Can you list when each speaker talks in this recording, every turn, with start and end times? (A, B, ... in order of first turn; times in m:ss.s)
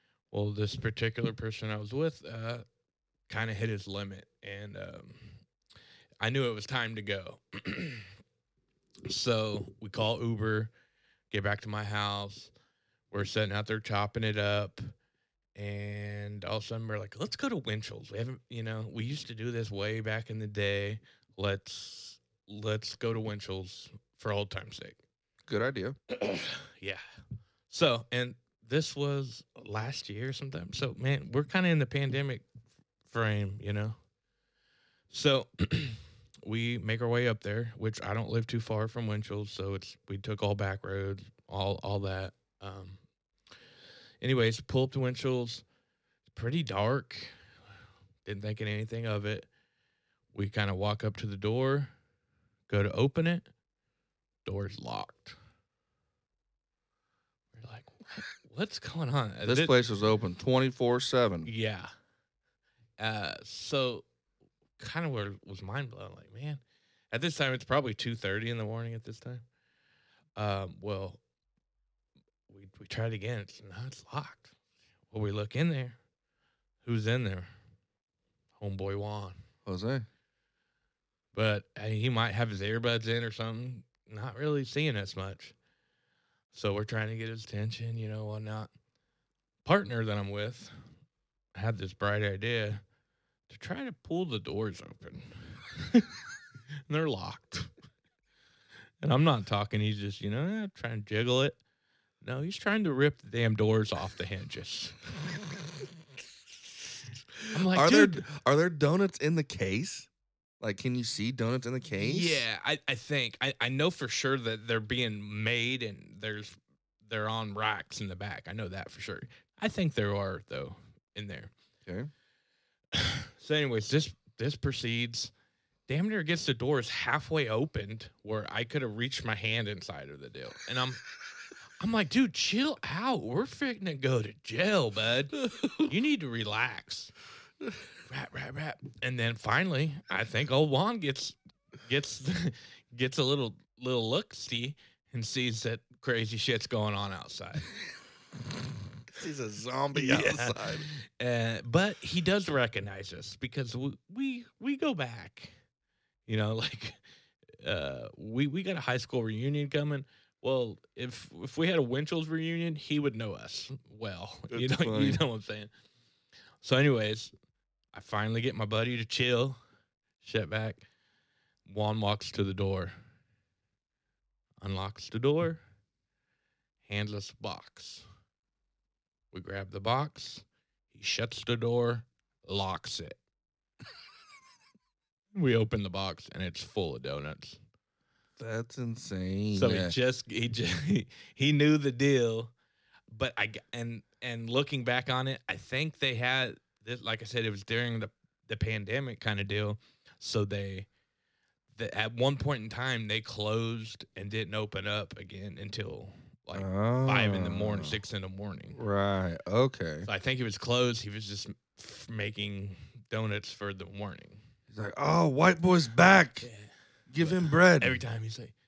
0:00.3-0:02.6 A
0:03.3-0:05.4 A
0:06.2-0:08.1 A
0:09.1-0:10.7 A
0:11.3-0:12.5 A
0:13.1-0:14.9 A
0:15.6-0:25.0 A
0:25.5-0:26.0 B
0:26.1-0:27.0 A
0:27.7-0:32.4 A
0:33.1-0:34.0 A
0:35.1-0:43.0 A
0:44.2-0:45.6 A
0:46.3-0:47.3 A
0:48.2-0:49.5 A
0:50.3-0:51.9 A
0:52.7-0:53.5 A
0:54.4-0:55.4 A
0:57.5-0:59.7 A
0:59.4-1:01.5 B
1:01.4-1:01.9 A
1:03.0-1:04.0 A
1:04.8-1:09.4 A
1:10.4-1:11.2 A
1:12.5-1:14.5 A
1:15.1-1:16.0 A
1:16.8-1:17.5 A
1:18.6-1:19.4 A
1:19.6-1:20.0 B
1:21.3-1:25.5 A
1:26.5-1:28.7 A
1:29.6-1:30.7 A
1:31.5-1:32.8 A
1:33.5-1:36.2 A
1:36.9-1:37.7 A
1:39.0-1:41.6 A
1:42.2-1:45.0 A
1:47.5-1:48.2 A
1:47.7-1:50.1 B
1:50.6-1:52.4 B
1:52.0-2:01.5 A
2:02.9-2:05.3 A
2:05.9-2:11.0 A
2:11.8-2:17.1 A
2:15.4-2:15.8 B
2:18.1-2:27.7 A
2:29.1-2:30.9 B
2:29.9-2:35.5 A
2:36.2-2:37.0 A
2:37.6-2:45.7 A
2:44.5-2:45.2 B
2:46.6-2:47.3 A
2:47.9-2:49.6 A
2:50.2-2:50.8 A
2:51.7-2:52.9 A
2:54.6-2:55.6 A
2:56.8-2:58.0 A
2:59.3-3:03.2 A
3:05.3-3:07.6 A
3:08.4-3:10.0 B
3:09.5-3:12.5 A
3:13.1-3:20.9 A
3:21.7-3:28.8 A
3:26.5-3:28.0 B
3:28.7-3:30.1 B
3:30.0-3:34.4 A
3:34.7-3:36.5 B
3:36.4-3:38.5 A
3:37.1-3:38.0 B